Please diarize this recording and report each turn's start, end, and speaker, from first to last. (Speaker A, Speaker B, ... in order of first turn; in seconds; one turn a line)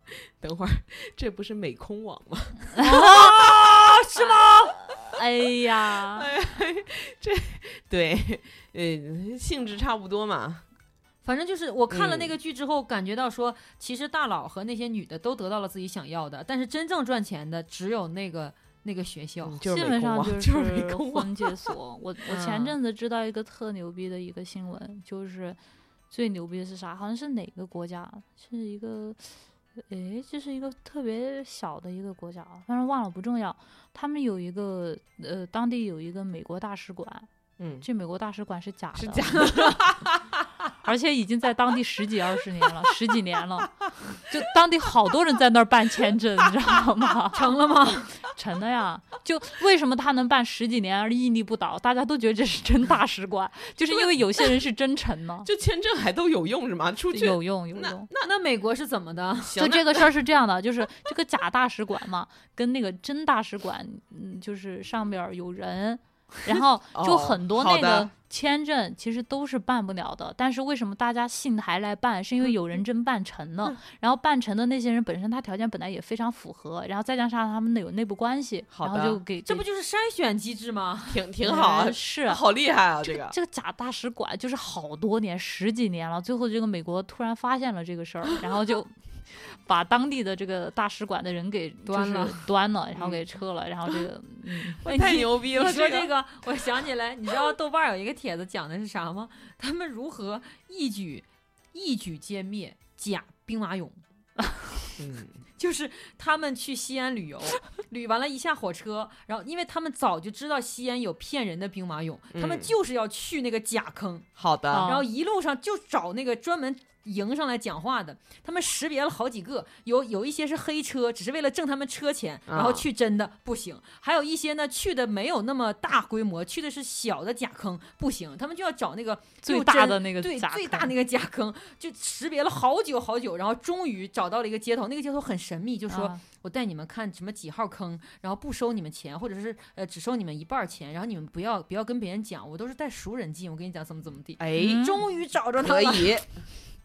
Speaker A: 0.2-10.6
Speaker B: 2.8-3.4
Speaker C: 4.1-4.7
Speaker B: 5.1-6.3
Speaker C: 11.2-19.6
Speaker A: 11.9-12.3
Speaker A: 19.4-21.7
Speaker B: 19.6-25.6
Speaker C: 22.3-22.8
Speaker B: 26.1-37.3
Speaker A: 37.6-37.9
Speaker B: 37.8-39.6
Speaker A: 38.9-40.4
Speaker C: 39.3-39.8
Speaker B: 40.8-47.5
Speaker C: 47.3-48.2
Speaker B: 48.3-55.5
Speaker A: 55.4-58.3
Speaker B: 57.1-58.1
Speaker C: 58.2-59.6
Speaker A: 59.4-60.1
Speaker B: 59.6-79.6
Speaker A: 66.9-68.1
Speaker A: 78.7-79.2
Speaker C: 79.5-81.2
Speaker A: 81.1-83.3
Speaker B: 81.4-82.4
Speaker B: 83.0-95.2
Speaker C: 91.8-92.5
Speaker A: 93.0-93.2
Speaker A: 94.7-96.1
Speaker C: 94.8-104.0
Speaker A: 105.0-105.4
Speaker C: 105.6-114.3
Speaker A: 112.3-112.7
Speaker A: 114.4-114.9
Speaker B: 114.7-115.0
Speaker C: 114.8-146.3
Speaker A: 122.5-122.9
Speaker B: 129.4-130.9
Speaker B: 135.9-136.2
Speaker A: 144.4-145.0
Speaker B: 144.6-145.0
Speaker A: 145.6-146.3